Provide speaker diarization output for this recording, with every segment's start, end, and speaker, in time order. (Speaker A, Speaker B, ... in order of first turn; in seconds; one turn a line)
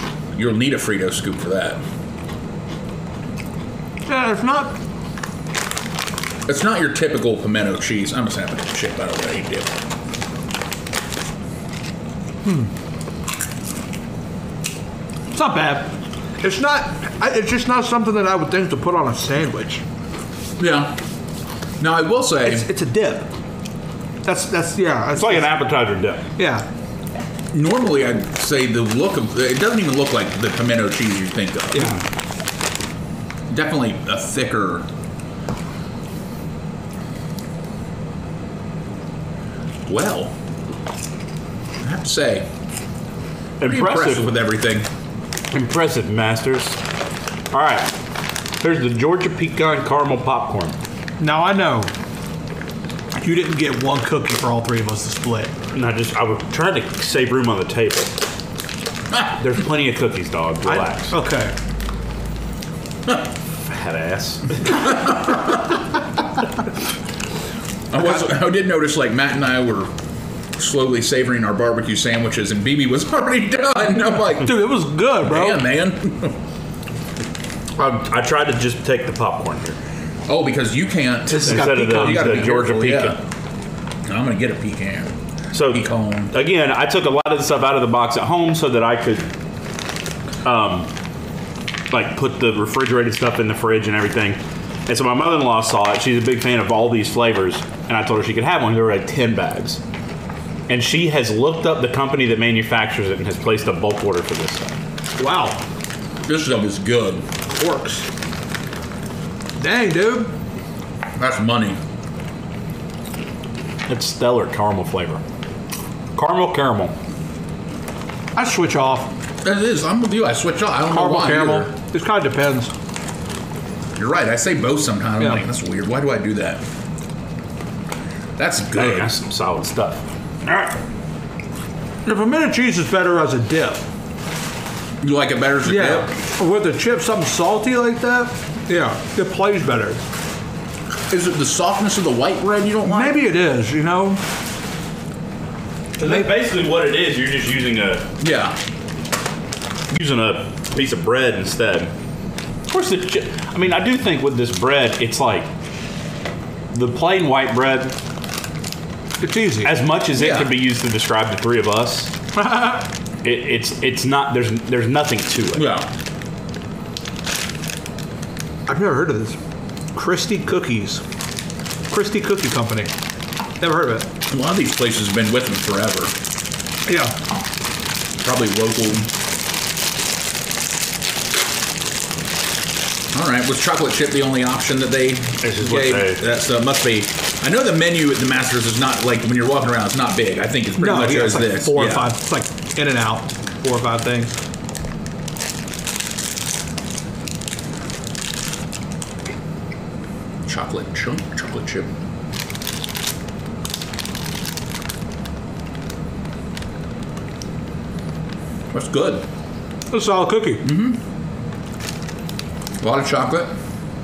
Speaker A: 0.3-1.8
Speaker B: 4.1-4.8
Speaker A: 6.5-9.8
Speaker B: 12.4-12.7
Speaker B: 15.3-19.8
Speaker A: 20.6-21.0
Speaker A: 21.8-22.6
Speaker B: 22.4-23.3
Speaker B: 24.2-25.6
Speaker C: 25.1-26.2
Speaker B: 26.4-26.6
Speaker A: 27.5-32.0
Speaker B: 31.7-32.0
Speaker A: 33.5-34.9
Speaker A: 39.9-40.3
Speaker A: 41.8-42.5
Speaker C: 43.6-44.4
Speaker A: 43.6-44.9
Speaker C: 45.5-46.8
Speaker C: 47.5-48.0
Speaker C: 48.6-50.8
Speaker B: 51.2-51.9
Speaker B: 53.2-55.5
Speaker C: 55.7-58.1
Speaker C: 59.3-61.2
Speaker B: 60.6-61.5
Speaker C: 63.7-65.0
Speaker A: 64.7-65.8
Speaker A: 67.9-69.9
Speaker A: 70.6-76.4
Speaker B: 74.4-75.6
Speaker C: 77.8-79.8
Speaker A: 80.3-83.2
Speaker B: 81.3-82.6
Speaker C: 81.4-83.2
Speaker A: 84.1-85.1
Speaker C: 85.5-89.3
Speaker A: 85.7-86.3
Speaker C: 90.4-90.9
Speaker C: 91.9-99.8
Speaker C: 100.7-104.7
Speaker B: 105.2-105.6
Speaker A: 106.2-107.3
Speaker B: 107.5-108.0
Speaker B: 109.6-110.3
Speaker A: 111.2-111.8
Speaker C: 113.9-115.2
Speaker C: 116.1-116.9
Speaker B: 118.3-119.1
Speaker A: 119.4-121.7
Speaker B: 120.9-122.7
Speaker A: 124.0-126.6
Speaker A: 128.4-129.1
Speaker C: 128.7-130.7
Speaker B: 132.0-133.8
Speaker A: 135.0-136.1
Speaker B: 135.6-140.0
Speaker A: 141.1-143.2
Speaker B: 142.8-144.2
Speaker C: 146.0-148.1
Speaker A: 148.2-148.6
Speaker C: 149.9-151.9
Speaker C: 152.7-155.5
Speaker C: 156.7-157.9
Speaker B: 159.2-159.7
Speaker C: 159.6-162.1
Speaker A: 160.2-160.5
Speaker B: 162.3-162.8
Speaker C: 163.2-165.7
Speaker A: 165.5-165.9
Speaker B: 168.7-169.4
Speaker B: 169.9-171.0
Speaker B: 171.9-172.9
Speaker B: 173.6-174.1
Speaker A: 174.3-176.1
Speaker B: 176.9-177.1
Speaker A: 178.2-179.1
Speaker A: 183.1-192.1
Speaker C: 185.4-186.2
Speaker B: 190.8-194.3
Speaker A: 200.4-201.9
Speaker A: 208.7-209.2
Speaker B: 209.9-210.6
Speaker A: 210.6-211.0
Speaker A: 212.8-213.5